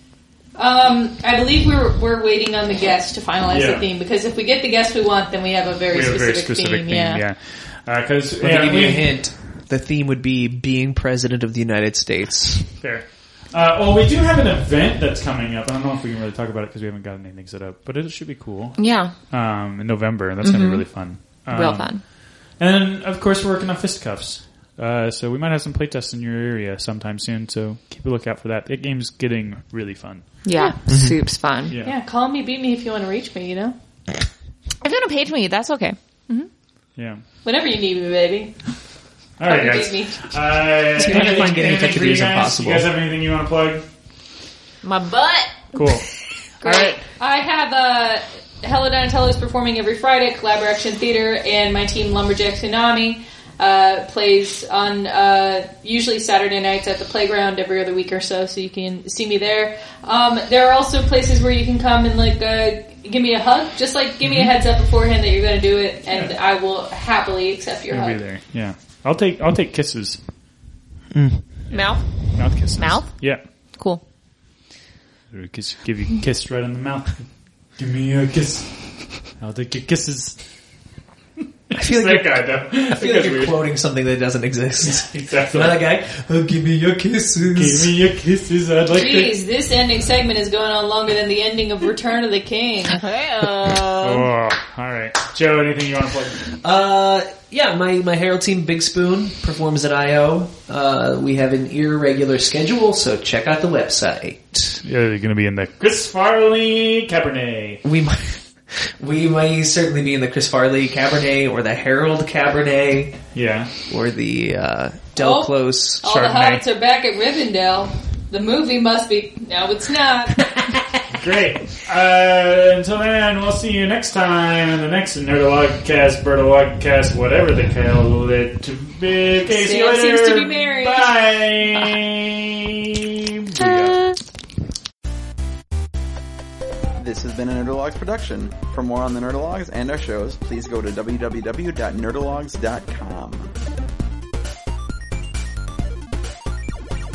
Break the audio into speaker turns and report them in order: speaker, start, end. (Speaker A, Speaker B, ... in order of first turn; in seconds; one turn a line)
Speaker A: 0.6-7.2
Speaker B: 3.5-3.8
Speaker B: 5.9-9.2
Speaker C: 8.4-12.7
Speaker B: 12.8-30.4
Speaker D: 18.8-19.1
Speaker D: 20.4-22.1
Speaker D: 30.4-31.8
Speaker C: 30.9-31.2
Speaker B: 31.7-31.9
Speaker A: 31.8-33.7
Speaker D: 34.8-36.0
Speaker B: 37.0-37.2
Speaker A: 37.4-38.5
Speaker B: 39.4-43.9
Speaker A: 39.4-40.2
Speaker C: 40.9-42.9
Speaker D: 41.1-41.4
Speaker D: 44.8-45.8
Speaker B: 45.7-46.1
Speaker B: 46.6-47.0
Speaker A: 46.6-68.2
Speaker B: 64.2-64.5
Speaker B: 67.9-70.2
Speaker C: 71.1-71.5
Speaker B: 71.7-73.4
Speaker D: 71.7-74.0
Speaker B: 75.3-80.7
Speaker B: 81.7-83.6
Speaker C: 81.7-87.9
Speaker B: 84.8-85.8
Speaker B: 87.5-89.4
Speaker A: 88.9-93.0
Speaker D: 93.0-94.0
Speaker C: 93.5-94.3
Speaker B: 94.0-96.4
Speaker C: 96.6-104.8
Speaker B: 104.8-107.8
Speaker C: 107.8-113.2
Speaker B: 113.3-113.7
Speaker C: 113.9-116.0
Speaker A: 115.2-120.4
Speaker B: 116.0-116.6
Speaker B: 121.1-132.7
Speaker A: 129.5-131.1
Speaker B: 133.4-134.2
Speaker D: 133.6-133.9
Speaker E: 136.9-143.5